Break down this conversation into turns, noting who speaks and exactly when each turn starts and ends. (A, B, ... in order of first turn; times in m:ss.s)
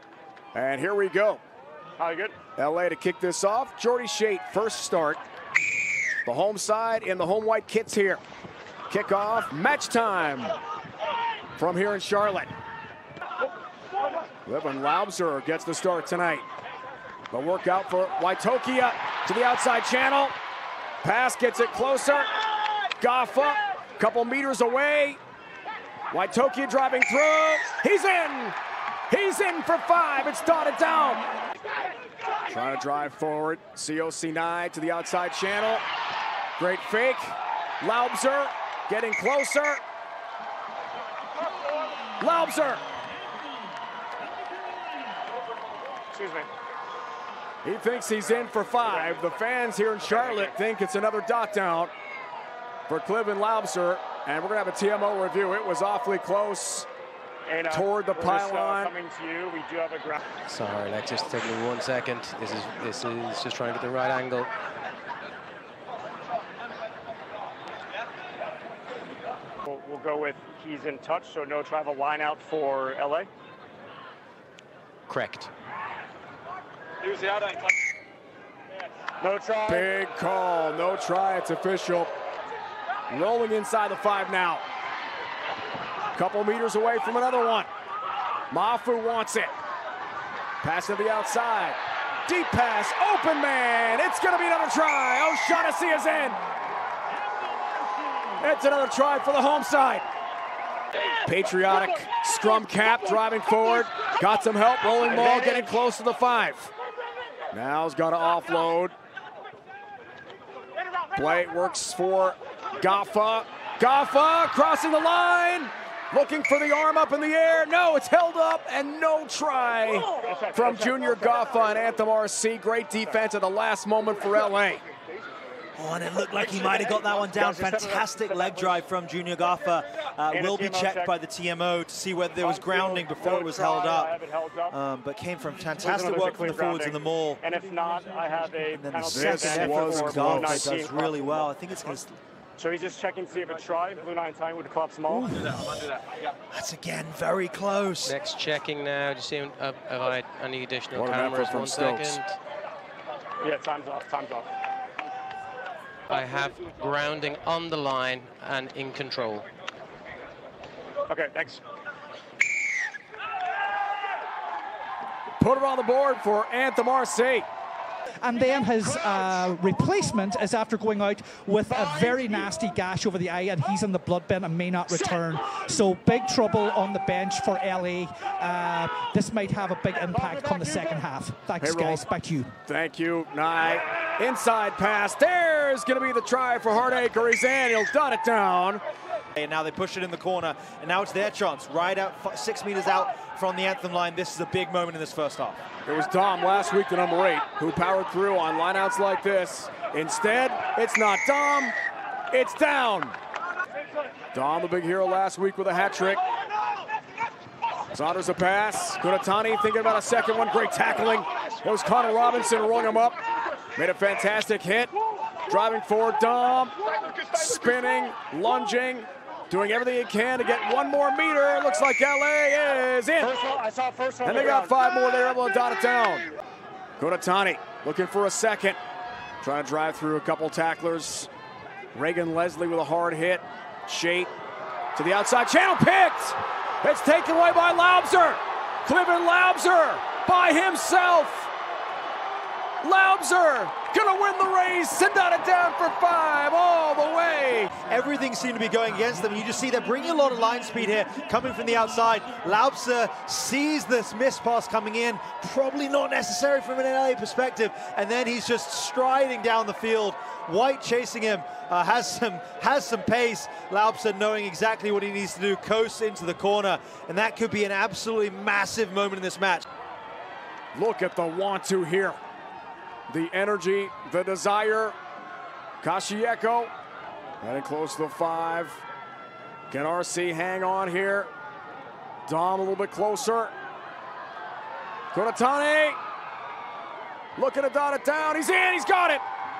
0:00.5-0:01.4 A
0:02.0-0:02.4 B
0:02.6-0:05.2 A
0:06.2-0:08.2 A
0:08.9-0:10.5 A
0:11.6-0:12.5 A
0:14.4-0:16.4 A
0:17.3-0:20.3 A
0:21.0-0:22.3 A
0:23.0-0:25.2 A
0:26.1-0:28.6 A
0:29.1-0:31.2 A
0:32.5-0:35.8 A
0:36.6-0:39.8 A
0:42.2-0:42.8 A
0:46.1-0:46.5 B
0:47.6-0:51.9 A
0:52.9-0:56.9 A
0:57.4-1:00.2 B
0:57.7-0:58.9 A
1:00.4-1:04.5 C
1:09.6-1:13.3 B
1:15.1-1:15.5 C
1:19.2-1:19.8 B
1:19.6-1:22.1 A
1:23.1-1:24.6 A
1:26.1-1:27.7 A
1:28.5-1:29.5 A
1:30.6-1:36.4 A
1:38.4-1:40.0 A
1:41.2-1:46.7 A
1:47.5-1:48.9 A
1:51.1-2:04.8 A
2:00.2-2:01.1 B
2:05.8-2:14.1 D
2:07.2-2:08.8 B
2:10.3-2:11.1 B
2:12.4-2:14.8 B
2:14.7-2:17.4 D
2:15.8-2:21.5 B
2:18.7-2:22.1 D
2:19.1-2:20.7 A
2:22.6-2:25.4 B
2:25.1-2:25.9 D
2:26.5-2:28.1 D
2:28.0-2:32.4 C
2:30.9-2:32.2 A
2:33.4-2:34.5 B
2:36.1-2:39.5 C
2:41.1-2:41.6 B
2:45.4-2:47.5 A
2:48.2-3:02.6 E
3:00.2-3:00.9 B
3:01.6-3:02.0 A
3:02.6-3:08.8 A
3:09.4-3:15.6 D
3:15.8-3:21.8 A
3:22.3-3:23.1 A
3:24.3-3:26.2 A
3:27.9-3:33.2 A
3:33.8-3:34.9 A
3:35.5-3:43.4 A
3:43.2-3:44.7 B
3:44.2-3:46.3 A
3:47.0-3:48.8 A
3:49.4-3:51.3 A
3:51.9-3:54.3 A
3:54.9-4:01.5 A
4:02.8-4:07.7 A
4:07.8-4:29.6 D
4:30.7-4:32.2 A
4:33.1-4:35.0 A
4:35.8-4:36.7 A
4:37.4-4:38.8 A
4:39.7-4:41.3 A
4:42.3-4:43.5 A
4:45.1-4:46.0 A
4:47.4-4:49.2 A